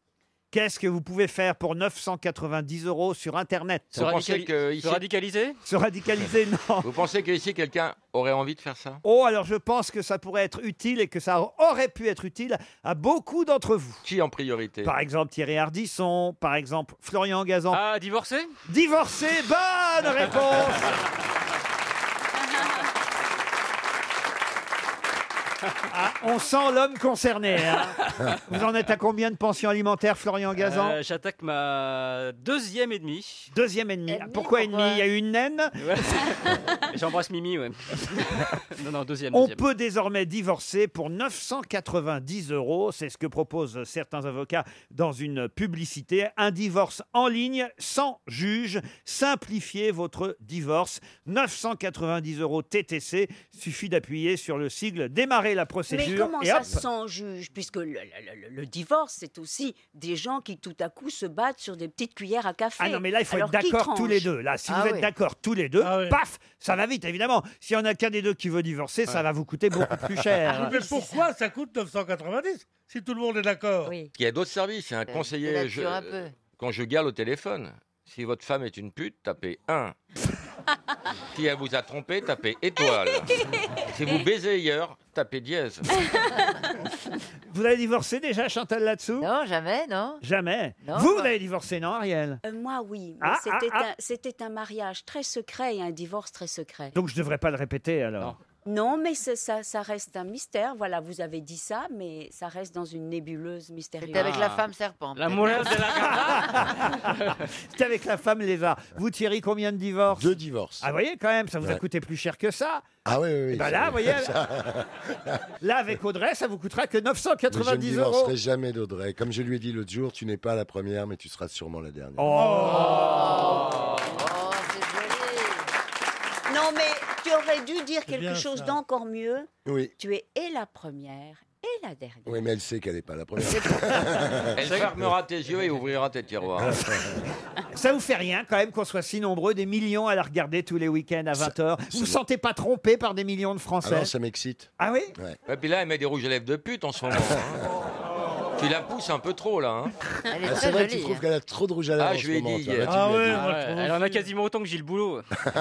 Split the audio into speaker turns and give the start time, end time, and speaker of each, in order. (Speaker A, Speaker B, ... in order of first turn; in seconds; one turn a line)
Speaker A: 0.5-4.1
Speaker B: 3.9-5.0
Speaker C: 4.0-5.6
Speaker A: 5.6-6.9
Speaker B: 6.8-9.0
Speaker A: 9.0-14.0
Speaker B: 14.0-14.9
Speaker A: 14.8-17.8
Speaker C: 17.7-18.5
Speaker A: 18.7-21.0
Speaker A: 25.9-31.0
Speaker C: 30.6-33.5
Speaker A: 33.5-35.8
Speaker D: 34.1-35.0
Speaker C: 35.8-36.3
Speaker C: 36.9-39.6
Speaker A: 39.3-56.8
Speaker E: 55.9-64.3
Speaker A: 62.8-70.8
Speaker D: 64.7-65.1
Speaker F: 65.8-66.2
Speaker F: 70.5-74.0
Speaker B: 74.1-79.9
Speaker D: 75.1-76.3
Speaker B: 81.3-83.3
Speaker B: 83.9-85.9
Speaker A: 87.5-89.3
Speaker D: 89.2-90.2
Speaker A: 90.2-92.4
Speaker D: 90.8-91.3
Speaker E: 92.4-96.9
Speaker A: 93.2-93.9
Speaker A: 96.9-98.3
Speaker E: 98.6-104.4
Speaker D: 104.0-105.7
Speaker C: 104.1-106.5
Speaker A: 106.0-107.1
Speaker A: 107.7-112.9
Speaker G: 110.1-110.9
Speaker G: 113.0-114.8
Speaker A: 113.5-114.3
Speaker A: 115.6-118.3
Speaker G: 117.5-122.3
Speaker A: 122.2-123.0
Speaker F: 122.3-123.1
Speaker D: 122.9-125.7
Speaker E: 126.5-132.5
Speaker F: 128.1-128.8
Speaker G: 129.7-129.9
Speaker G: 132.2-135.1
Speaker B: 134.5-136.8
Speaker G: 136.7-137.1
Speaker A: 137.7-144.1
Speaker G: 141.3-142.2
Speaker G: 143.8-145.4
Speaker A: 144.8-145.1
Speaker B: 145.5-147.6
Speaker B: 148.6-149.9
Speaker D: 150.3-151.2
Speaker G: 150.4-153.4
Speaker B: 152.0-153.1
Speaker F: 152.8-154.2
Speaker C: 153.3-155.2